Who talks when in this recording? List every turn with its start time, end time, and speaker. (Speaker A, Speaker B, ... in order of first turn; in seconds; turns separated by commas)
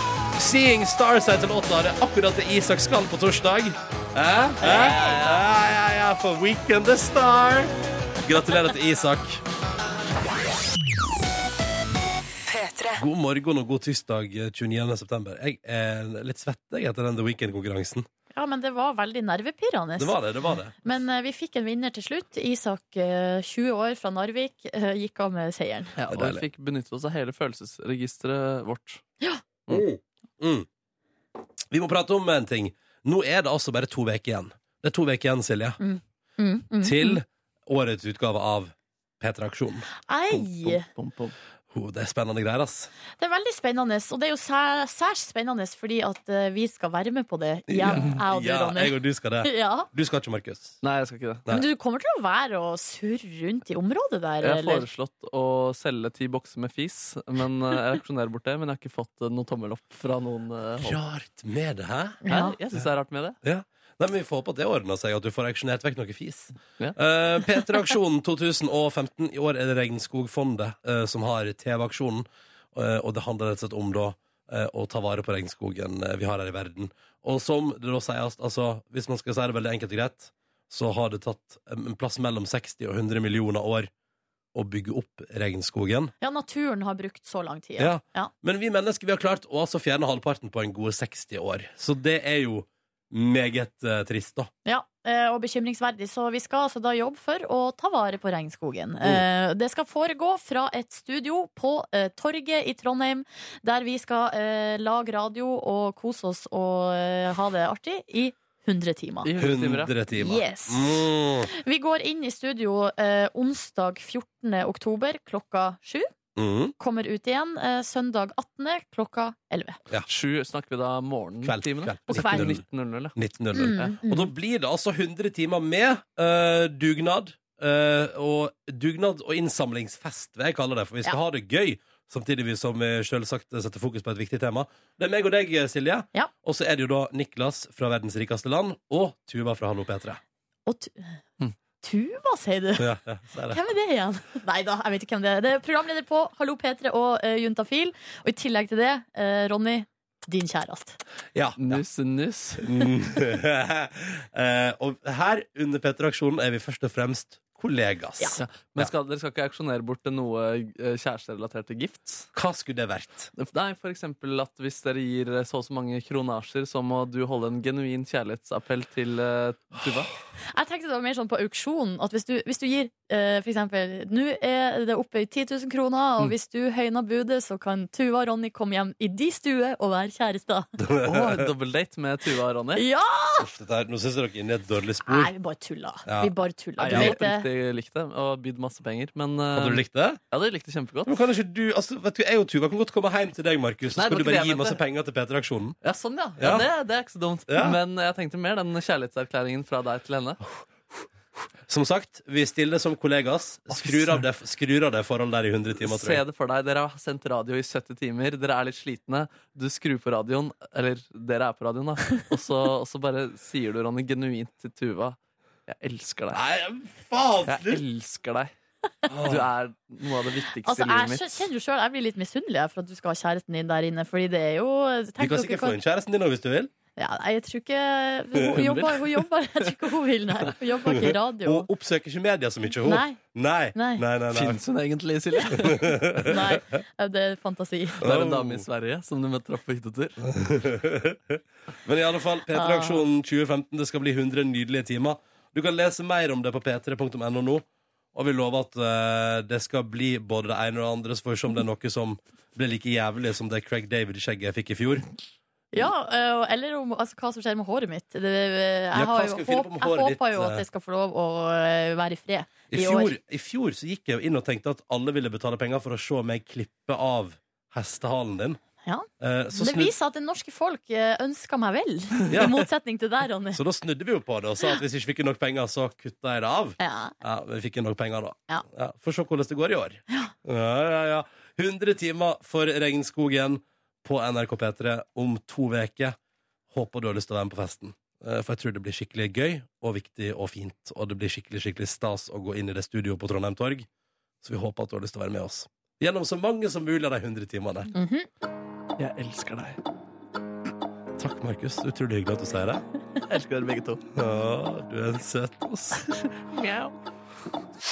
Speaker A: 0.4-7.7, Speaker B: 4.6-5.5, Speaker A: 8.2-9.4, Speaker A: 12.9-18.1, Speaker C: 18.3-20.2, Speaker A: 20.0-20.8, Speaker C: 20.8-25.9, Speaker B: 26.0-29.0, Speaker A: 26.1-26.4, Speaker A: 29.7-30.7, Speaker A: 31.7-35.8, Speaker C: 35.8-37.2, Speaker A: 36.8-39.9, Speaker C: 40.1-40.9, Speaker B: 40.6-41.3, Speaker A: 41.7-42.9, Speaker C: 43.2-49.9, Speaker A: 47.7-50.8, Speaker B: 50.8-51.4, Speaker C: 51.5-54.9, Speaker B: 54.4-61.0, Speaker A: 60.8-62.2, Speaker C: 62.2-62.5, Speaker B: 62.3-63.4, Speaker A: 63.4-83.9, Speaker A: 84.5-86.1, Speaker C: 86.2-88.3, Speaker A: 87.8-94.5, Speaker C: 94.7-109.3, Speaker B: 109.2-109.9, Speaker A: 109.4-111.5, Speaker C: 110.1-116.1, Speaker A: 116.4-116.8, Speaker C: 116.8-119.8, Speaker B: 120.1-124.0, Speaker A: 121.4-140.2, Speaker C: 122.1-122.5, Speaker C: 123.5-124.3, Speaker C: 140.7-141.2, Speaker C: 141.8-142.9, Speaker A: 142.8-143.6, Speaker C: 143.5-151.0, Speaker A: 151.3-151.8, Speaker B: 151.6-152.7, Speaker A: 152.6-158.9, Speaker B: 158.4-162.3, Speaker A: 162.3-163.3, Speaker B: 163.4-170.1, Speaker C: 170.5-180.7, Speaker A: 180.8-181.5, Speaker B: 181.0-182.9, Speaker C: 182.8-183.5, Speaker A: 183.4-185.3, Speaker C: 185.1-187.5, Speaker A: 186.1-186.3, Speaker B: 186.8-191.2, Speaker A: 186.9-187.2, Speaker A: 189.5-190.2, Speaker A: 191.1-195.8, Speaker B: 194.0-194.8, Speaker B: 195.8-200.4, Speaker A: 196.4-196.7, Speaker A: 197.5-197.8, Speaker A: 201.7-206.2, Speaker B: 203.7-204.2, Speaker B: 205.8-216.4, Speaker A: 216.3-217.8, Speaker B: 217.5-218.5, Speaker A: 219.1-219.5, Speaker B: 219.2-221.5, Speaker C: 220.7-225.8, Speaker A: 225.2-226.7, Speaker C: 227.0-231.7, Speaker B: 228.5-229.7, Speaker A: 230.9-234.6, Speaker C: 232.8-233.2, Speaker C: 233.8-234.0, Speaker B: 234.3-236.0, Speaker A: 235.6-236.4, Speaker C: 236.2-238.0, Speaker A: 238.0-238.7, Speaker B: 238.0-240.2, Speaker A: 240.3-255.1, Speaker C: 242.5-243.0, Speaker C: 255.7-263.1, Speaker A: 258.9-260.6, Speaker A: 262.7-268.6, Speaker C: 268.8-273.6, Speaker A: 269.2-269.9, Speaker A: 272.3-272.7, Speaker A: 273.5-286.2, Speaker C: 276.8-277.1, Speaker A: 286.7-293.9, Speaker A: 294.4-297.9, Speaker C: 297.9-298.3, Speaker B: 299.0-299.8, Speaker A: 301.2-302.9, Speaker B: 303.2-304.0, Speaker A: 304.1-306.1, Speaker B: 306.5-306.9